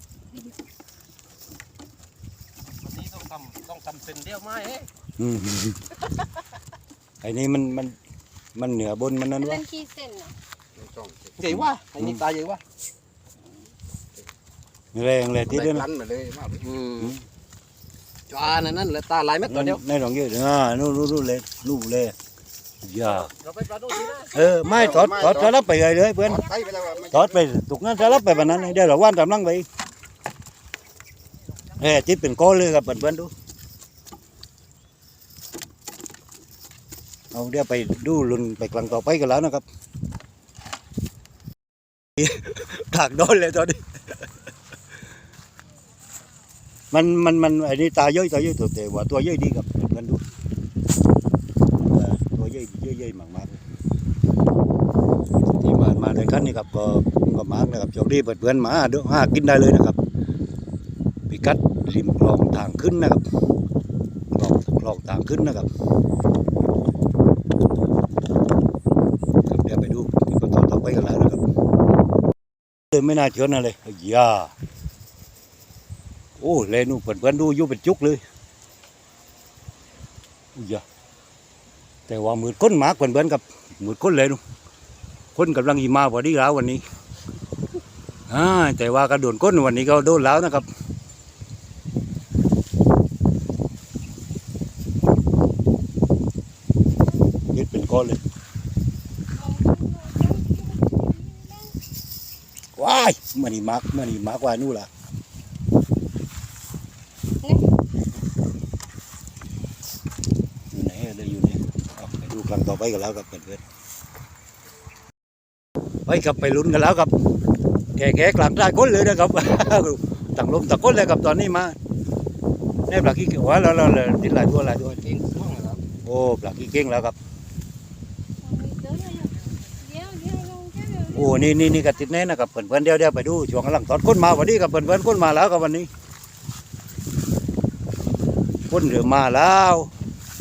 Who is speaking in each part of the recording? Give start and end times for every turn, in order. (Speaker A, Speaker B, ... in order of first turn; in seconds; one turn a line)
Speaker A: 2.9-4.9
Speaker B: 5.2-5.8
Speaker B: 7.2-8.0
Speaker B: 8.5-9.6
Speaker C: 9.4-10.3
Speaker A: 10.9-12.6
Speaker B: 11.4-12.2
Speaker B: 14.9-15.9
Speaker A: 16.0-17.1
Speaker A: 18.3-19.8
Speaker B: 19.4-22.1
Speaker B: 22.8-23.3
Speaker A: 23.2-24.8
Speaker B: 24.2-29.6
Speaker C: 26.4-27.1
Speaker C: 28.0-28.7
Speaker B: 31.8-33.3
Speaker B: 37.3-39.6
Speaker B: 42.2-43.8
Speaker B: 46.9-50.2
Speaker B: 51.8-53.6
Speaker B: 55.6-60.0
Speaker B: 61.3-63.2
Speaker B: 64.3-65.7
Speaker B: 69.5-71.4
Speaker B: 72.9-74.5
Speaker B: 76.4-78.2
Speaker B: 80.5-80.8
Speaker B: 82.1-84.4
Speaker B: 85.3-86.8
Speaker B: 88.3-90.7
Speaker B: 97.5-98.2
Speaker C: 99.3-101.8
Speaker B: 102.8-104.9
Speaker B: 110.7-113.6
Speaker B: 116.1-117.1
Speaker B: 118.0-121.8
Speaker B: 122.9-125.0
Speaker A: 125.0-125.8
Speaker B: 126.0-127.2
Speaker C: 128.4-131.4
Speaker B: 131.1-135.9
Speaker B: 138.7-139.9